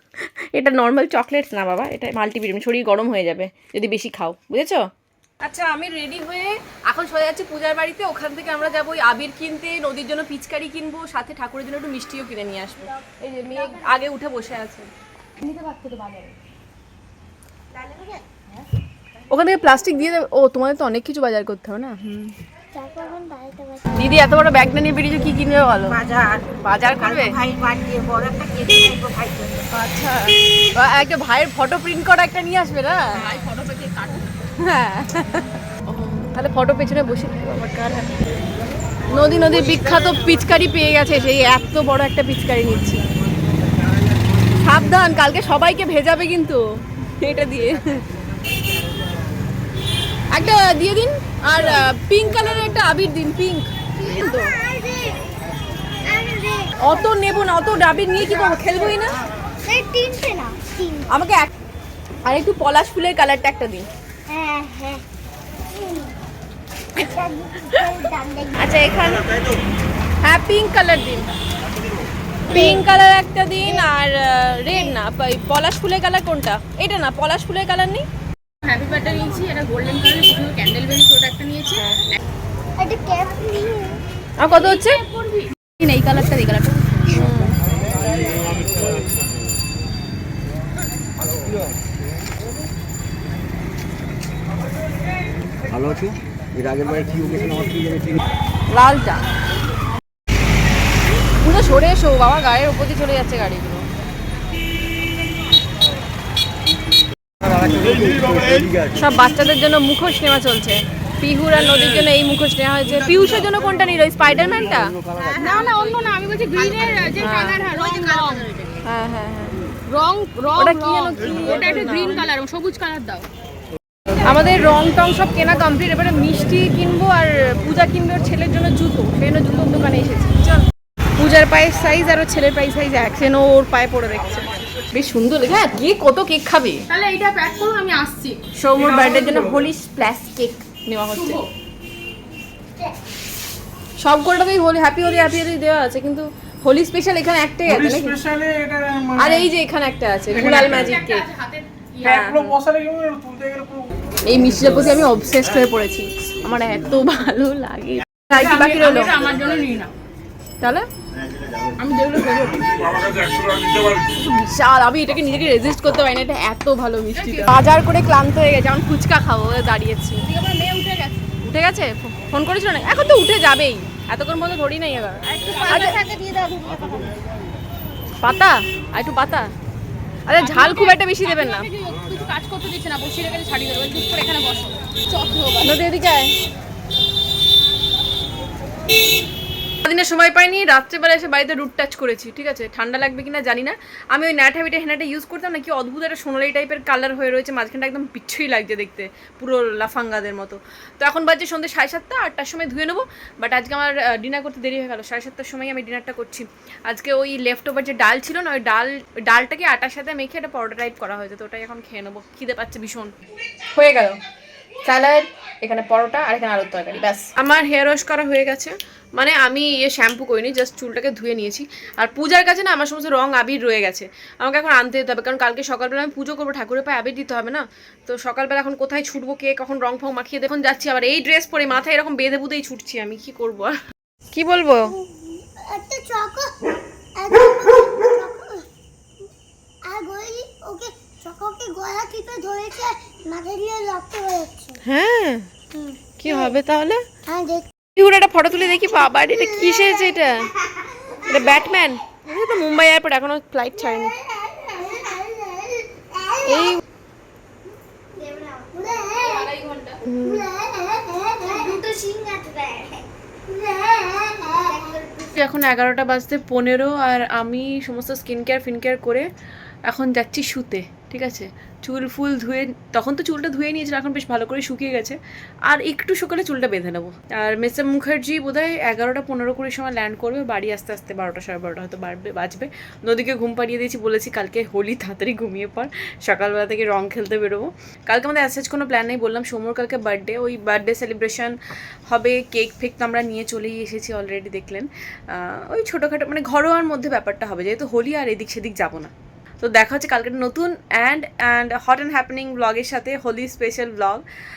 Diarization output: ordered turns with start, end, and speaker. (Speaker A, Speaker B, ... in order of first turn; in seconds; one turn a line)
Speaker A: 0.5-4.9
Speaker A: 5.4-14.9
Speaker B: 15.4-16.3
Speaker A: 19.3-22.3
Speaker C: 22.7-23.9
Speaker A: 23.9-26.0
Speaker A: 26.6-27.4
Speaker D: 28.6-29.6
Speaker A: 29.7-33.3
Speaker B: 33.2-34.3
Speaker A: 34.6-38.2
Speaker A: 39.1-43.0
Speaker A: 44.5-46.6
Speaker A: 47.2-48.0
Speaker A: 50.3-54.6
Speaker C: 54.0-55.3
Speaker C: 56.0-57.3
Speaker A: 56.8-59.2
Speaker C: 59.6-61.1
Speaker A: 61.1-61.5
Speaker A: 62.2-63.9
Speaker C: 64.3-65.0
Speaker C: 65.7-66.2
Speaker C: 67.0-68.6
Speaker A: 68.6-69.3
Speaker A: 70.2-71.4
Speaker C: 72.5-72.8
Speaker A: 72.5-78.1
Speaker C: 73.6-73.9
Speaker B: 78.6-81.9
Speaker C: 82.8-84.0
Speaker A: 84.4-85.0
Speaker B: 84.5-87.1
Speaker A: 87.1-87.6
Speaker D: 95.9-96.1
Speaker D: 96.7-98.0
Speaker A: 98.7-99.3
Speaker A: 101.3-103.9
Speaker D: 107.8-108.5
Speaker A: 108.9-115.0
Speaker B: 115.4-118.7
Speaker A: 117.2-117.6
Speaker A: 118.8-119.6
Speaker B: 119.9-123.3
Speaker A: 120.6-122.2
Speaker A: 124.2-130.7
Speaker A: 131.2-136.8
Speaker B: 136.9-138.4
Speaker A: 138.5-141.4
Speaker E: 138.8-139.5
Speaker B: 141.1-141.5
Speaker A: 144.0-148.2
Speaker E: 147.7-149.4
Speaker A: 149.2-151.3
Speaker B: 150.3-152.2
Speaker A: 152.0-152.6
Speaker E: 152.2-153.9
Speaker A: 154.2-159.2
Speaker B: 158.3-159.9
Speaker A: 160.6-160.9
Speaker B: 161.8-163.7
Speaker A: 163.8-170.3
Speaker B: 167.1-167.5
Speaker B: 170.2-171.2
Speaker A: 171.4-176.0
Speaker B: 175.3-176.0
Speaker C: 175.8-176.9
Speaker A: 178.2-179.5
Speaker A: 180.3-181.7
Speaker B: 180.4-185.8
Speaker A: 185.6-186.3
Speaker A: 189.8-213.1
Speaker A: 213.7-214.2
Speaker A: 214.8-233.8
Speaker A: 234.3-234.9
Speaker C: 234.9-238.7
Speaker C: 239.8-244.8
Speaker A: 244.8-245.5
Speaker C: 245.7-246.6
Speaker A: 246.2-247.1
Speaker C: 247.2-247.7
Speaker A: 247.9-250.6
Speaker C: 248.7-251.5
Speaker A: 251.3-254.2
Speaker C: 253.7-256.8
Speaker A: 256.4-256.8
Speaker C: 258.1-259.5
Speaker B: 259.1-259.9
Speaker A: 259.9-260.5
Speaker C: 260.1-265.1
Speaker A: 265.1-269.3
Speaker A: 269.9-304.2